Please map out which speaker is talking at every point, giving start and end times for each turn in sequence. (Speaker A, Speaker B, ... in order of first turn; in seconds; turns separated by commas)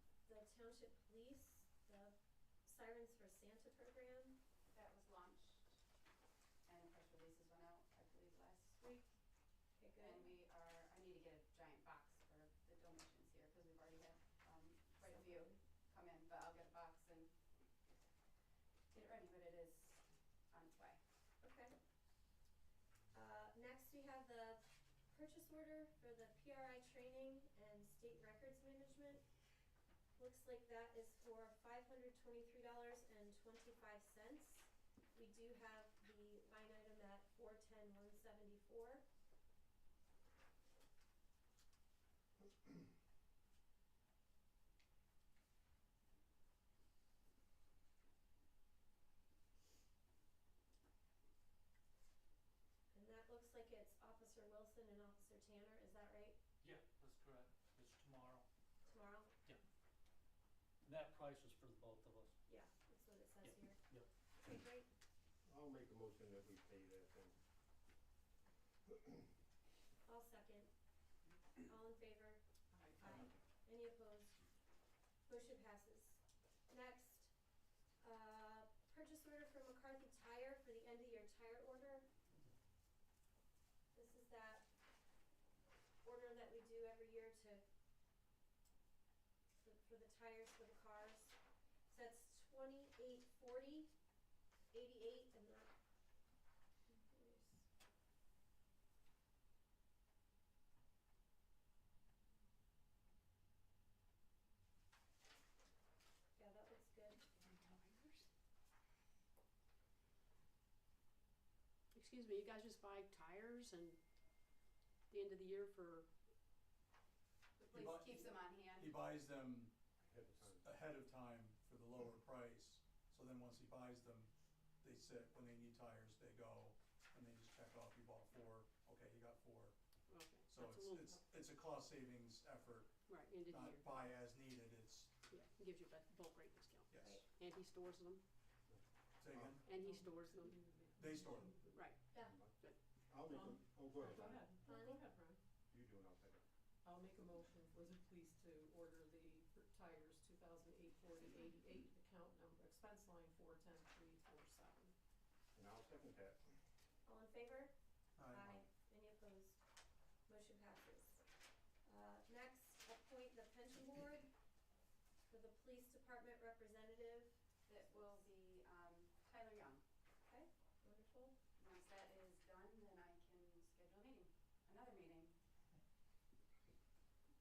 Speaker A: 0.2-4.4, Speaker B: 4.7-5.7, Speaker B: 6.7-8.8, Speaker A: 8.8-9.1, Speaker A: 9.8-10.3, Speaker B: 10.0-17.3, Speaker A: 15.0-15.6, Speaker B: 18.9-21.0, Speaker A: 21.4-21.8, Speaker A: 23.1-29.2, Speaker A: 30.2-39.0, Speaker A: 52.9-56.4, Speaker C: 56.6-58.5, Speaker A: 58.8-59.3, Speaker C: 60.8-62.4, Speaker A: 62.5-64.9, Speaker C: 63.4-64.0, Speaker D: 65.4-67.4, Speaker A: 70.0-70.7, Speaker A: 71.7-72.4, Speaker E: 72.7-73.0, Speaker A: 73.0-74.4, Speaker A: 75.3-77.3, Speaker A: 78.0-82.1, Speaker A: 83.9-84.7, Speaker A: 86.0-87.6, Speaker A: 89.6-91.3, Speaker A: 91.9-93.9, Speaker A: 94.7-95.7, Speaker A: 96.9-97.7, Speaker A: 106.4-107.2, Speaker F: 107.4-108.2, Speaker F: 111.9-114.0, Speaker F: 115.1-116.1, Speaker B: 117.6-119.0, Speaker G: 117.7-119.7, Speaker D: 120.0-120.7, Speaker G: 120.4-124.3, Speaker G: 124.8-129.8, Speaker F: 130.1-131.1, Speaker G: 130.5-135.1, Speaker F: 133.1-134.1, Speaker F: 135.3-138.2, Speaker G: 136.9-137.2, Speaker D: 138.7-139.6, Speaker G: 139.2-139.7, Speaker F: 139.6-140.6, Speaker E: 139.7-141.8, Speaker G: 140.9-141.6, Speaker F: 141.7-142.8, Speaker A: 142.1-142.4, Speaker D: 142.2-144.8, Speaker E: 143.3-145.4, Speaker A: 144.6-145.0, Speaker D: 145.7-146.4, Speaker E: 146.8-154.9, Speaker D: 155.5-156.5, Speaker A: 157.1-157.7, Speaker G: 158.2-158.6, Speaker A: 158.2-159.6, Speaker A: 160.3-161.2, Speaker A: 161.8-164.3, Speaker A: 165.3-167.4, Speaker B: 167.7-169.8, Speaker A: 170.3-171.3, Speaker B: 171.6-175.3